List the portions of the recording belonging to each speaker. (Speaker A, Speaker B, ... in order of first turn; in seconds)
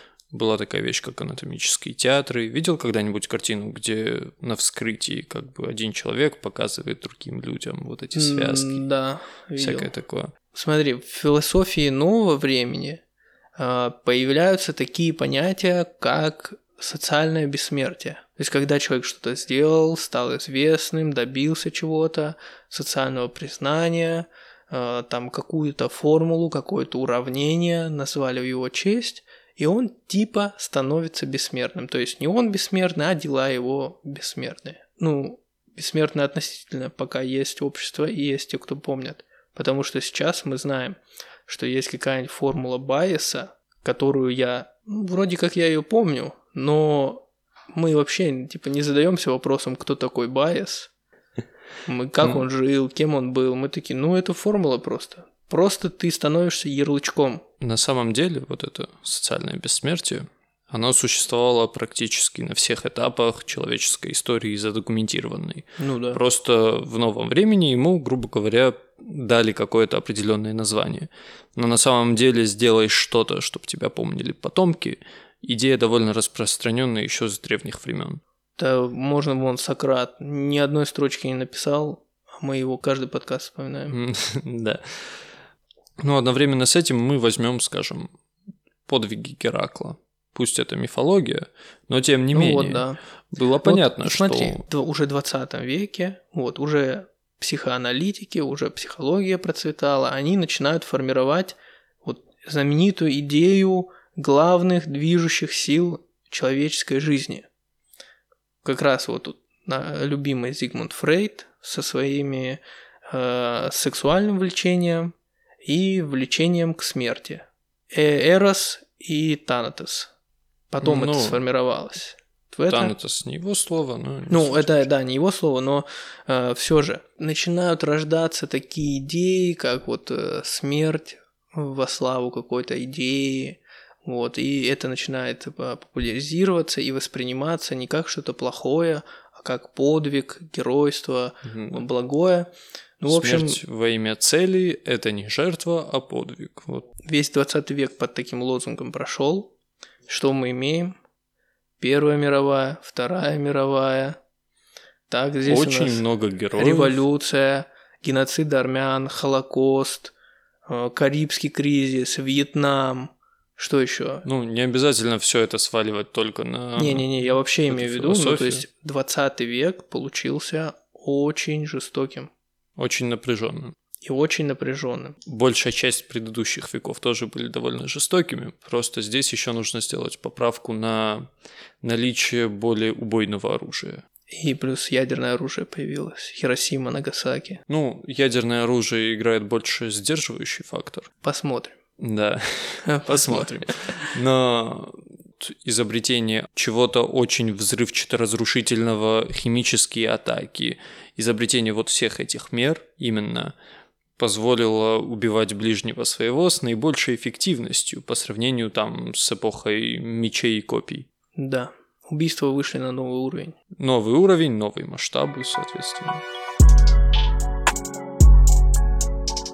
Speaker A: 0.3-8.8, 9.6-10.3, 52.2-52.5, 57.6-78.2, 83.9-85.2, 86.0-88.1, 88.9-94.6, 120.8-121.4, 122.7-124.9, 141.4-141.8, 143.1-146.9, 155.4-157.0, 164.2-168.6, 172.8-173.8, 175.3-181.3, 181.8-184.1, 187.7-191.1, 192.0-203.5, 204.2-211.1, 213.8-216.2
Speaker B: 8.1-9.9, 10.5-13.0, 13.6-50.9, 51.9-57.4, 65.8-66.2, 78.6-84.0, 92.3-93.0, 93.6-107.5, 108.6-115.1, 115.7-120.1, 120.7-122.9, 124.3-142.5, 143.0-143.6, 147.1-149.5, 150.1-150.9, 151.8-154.2, 155.1-156.0, 156.6-160.1, 160.7-164.2, 166.8-172.3, 174.0-175.2, 184.3-187.6, 191.2-191.8, 192.8-194.1, 211.3-213.6